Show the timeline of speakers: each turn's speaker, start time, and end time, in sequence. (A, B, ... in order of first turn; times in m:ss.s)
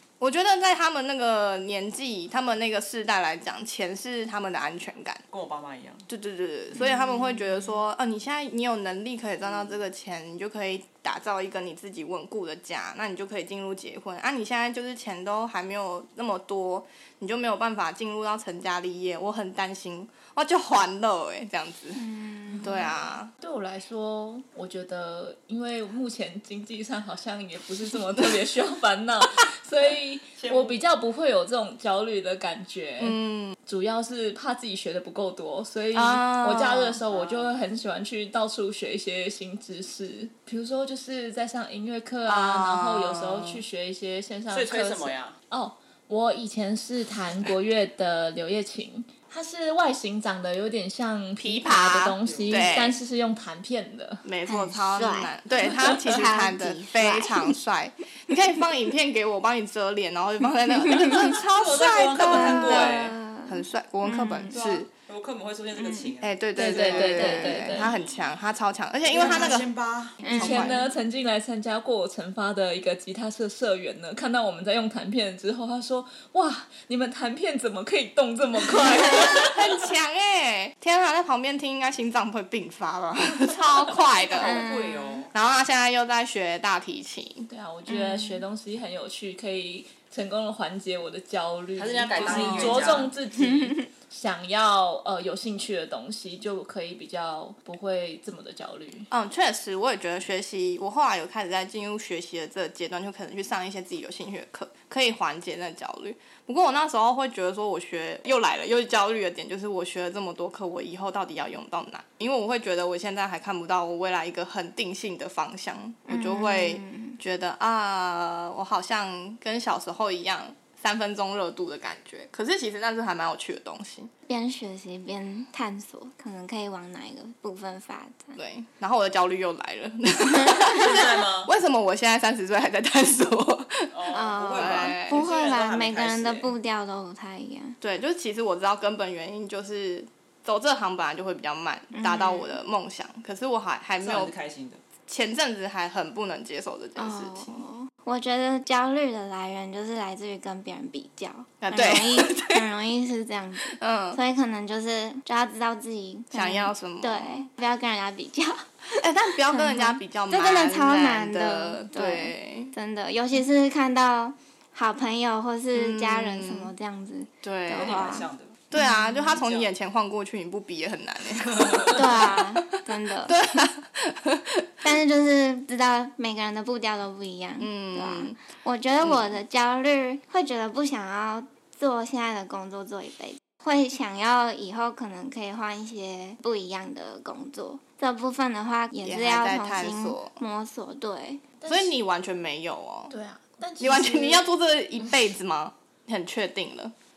0:00.2-0:05.2 A
0:05.3-0:06.1 B
0:06.1-0:22.0 A
0:06.8-0:07.5 C
0:09.4-0:09.7 B
0:22.0-0:22.9 C
0:22.6-0:54.2 D
0:22.6-0:23.3 A
0:30.4-0:30.8 B
0:33.0-0:33.6 A
0:35.9-0:37.0 A
0:37.1-0:37.5 B
0:42.3-0:43.6 A
0:44.5-0:45.4 B
0:51.4-0:53.0 A
0:52.2-0:52.7 B
0:54.2-1:04.9 A
0:54.5-0:57.6 C
1:00.9-1:03.2 B
1:02.2-1:04.6 C
1:04.5-1:07.2 B
1:05.8-1:06.1 C
1:06.2-1:09.7 A
1:06.6-1:07.9 D
1:07.0-1:07.8 C
1:09.0-1:10.3 B
1:09.2-1:09.6 C
1:10.2-1:10.9 C
1:10.3-1:10.8 A
1:10.3-1:19.7 D
1:19.0-1:24.6 A
1:24.0-1:25.3 B
1:24.3-1:25.2 C
1:25.3-1:27.5 A
1:27.5-1:39.1 D
1:27.9-1:28.4 C
1:31.8-1:33.1 B
1:32.2-1:33.1 A
1:33.4-1:33.8 C
1:39.1-2:04.1 A
1:56.1-1:57.2 C
2:04.3-2:08.4 C
2:08.4-2:13.9 A
2:10.4-2:10.8 C
2:10.6-2:11.5 B
2:13.9-2:16.5 B
2:14.1-2:17.8 C
2:14.5-2:15.2 A
2:17.8-2:24.3 A
2:21.9-2:22.5 C
2:24.0-2:24.8 B
2:25.1-2:27.6 A
2:27.0-2:49.4 C
2:31.6-2:32.6 A
2:33.6-2:34.2 A
2:36.3-2:37.5 A
2:39.0-2:42.7 A
2:45.7-2:46.7 A
2:47.4-2:55.0 A
2:47.7-2:48.6 B
2:49.3-2:49.7 B
2:51.5-2:52.0 B
2:51.9-2:53.7 C
2:54.8-3:11.5 C
2:57.6-2:58.4 A
2:59.0-2:59.3 A
3:09.0-3:10.3 A
3:11.6-3:12.0 D
3:11.7-3:13.1 A
3:13.1-3:14.4 D
3:13.8-3:16.9 A